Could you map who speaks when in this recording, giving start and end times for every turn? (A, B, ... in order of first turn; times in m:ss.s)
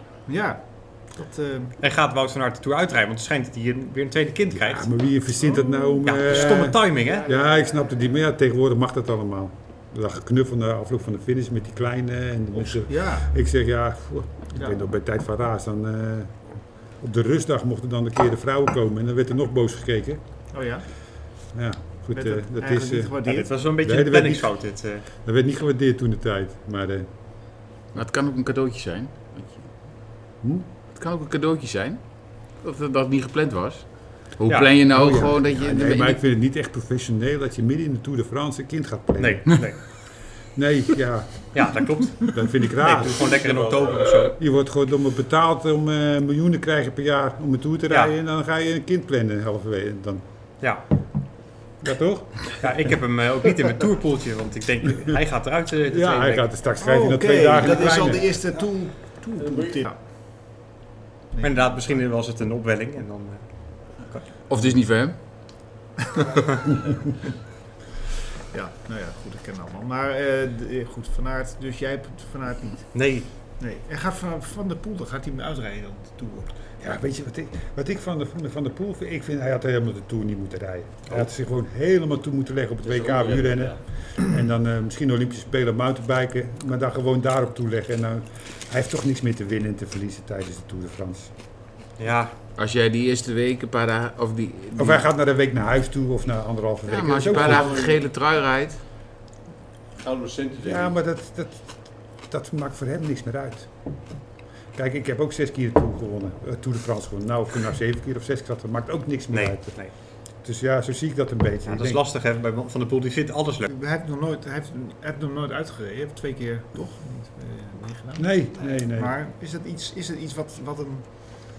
0:00.3-0:01.8 A
0:01.8-0:05.0 B
0:04.6-0:20.5 C
0:05.4-0:06.6 A
0:06.0-0:07.3 B
0:12.5-0:13.4 A
0:14.5-0:14.9 A
0:20.5-0:20.9 A
0:21.5-0:27.1 C
0:22.1-0:23.5 A
0:23.3-0:25.0 B
0:27.9-0:29.7 D
0:30.9-0:36.2 D
0:34.5-0:34.8 B
0:34.9-0:43.4 C
0:39.2-0:40.4 B
0:41.5-0:44.4 B
0:43.4-0:44.1 E
0:44.3-0:50.2 C
0:51.8-0:52.6 C
0:52.6-0:56.5 B
0:55.9-0:58.4 C
0:56.8-1:00.0 A
0:59.4-0:59.8 E
1:01.3-1:02.0 A
1:01.4-1:04.3 B
1:04.5-1:05.5 D
1:08.5-1:16.5 A
1:12.9-1:13.3 B
1:16.8-1:31.3 C
1:22.8-1:23.8 E
1:32.0-1:32.3 B
1:32.6-1:35.0 D
1:34.8-1:37.8 C
1:36.9-1:38.8 D
1:37.3-1:38.0 E
1:40.0-1:40.9 E
1:40.6-1:43.7 C
1:44.7-1:52.0 C
1:49.3-1:49.9 B
1:51.6-1:53.7 B
1:53.7-2:01.1 A
1:58.2-1:59.1 C